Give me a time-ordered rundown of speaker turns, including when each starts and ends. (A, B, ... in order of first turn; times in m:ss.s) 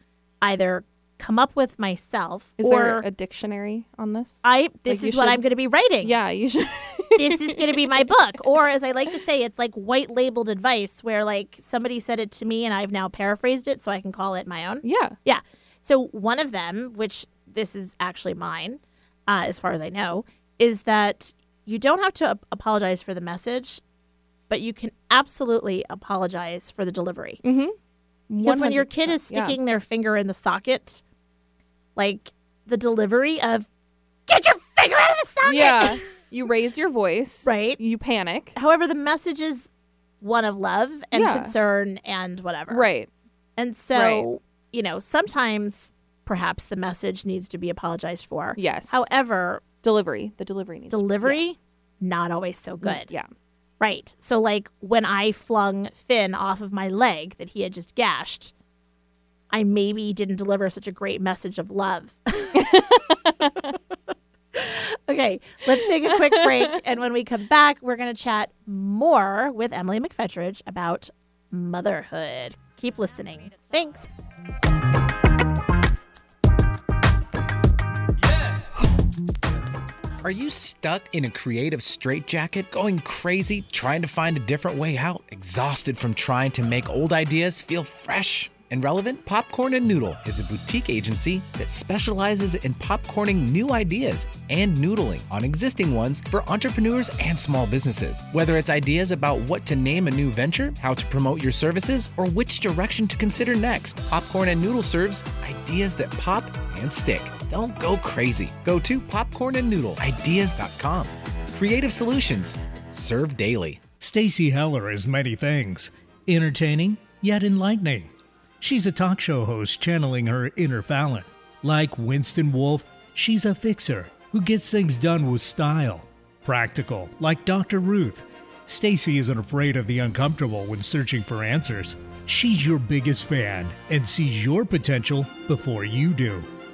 0:00.4-0:03.1 A
0:02.6-0:05.4 B
0:04.4-0:06.2 A
0:06.0-0:08.1 B
0:07.2-0:23.8 A
0:14.8-0:15.2 B
0:24.5-0:27.4 A
0:27.4-0:27.8 B
0:28.3-0:29.6 B
0:28.4-0:31.0 A
0:32.0-0:33.7 A
0:34.3-0:36.0 A
0:35.4-0:38.6 B
0:37.4-0:37.8 A
0:38.6-0:39.7 A
0:40.2-0:42.9 A
0:41.1-0:41.5 B
0:42.7-0:43.1 B
0:43.6-0:49.6 A
0:43.9-0:44.3 B
0:48.6-0:49.1 B
0:49.8-0:51.4 B
0:50.9-0:53.1 A
0:52.8-0:53.3 B
0:53.8-0:58.5 A
0:59.5-1:02.8 A
1:02.6-1:03.7 B
1:04.5-1:14.1 A
1:06.2-1:06.7 B
1:20.2-1:53.8 C
1:54.0-2:16.5 D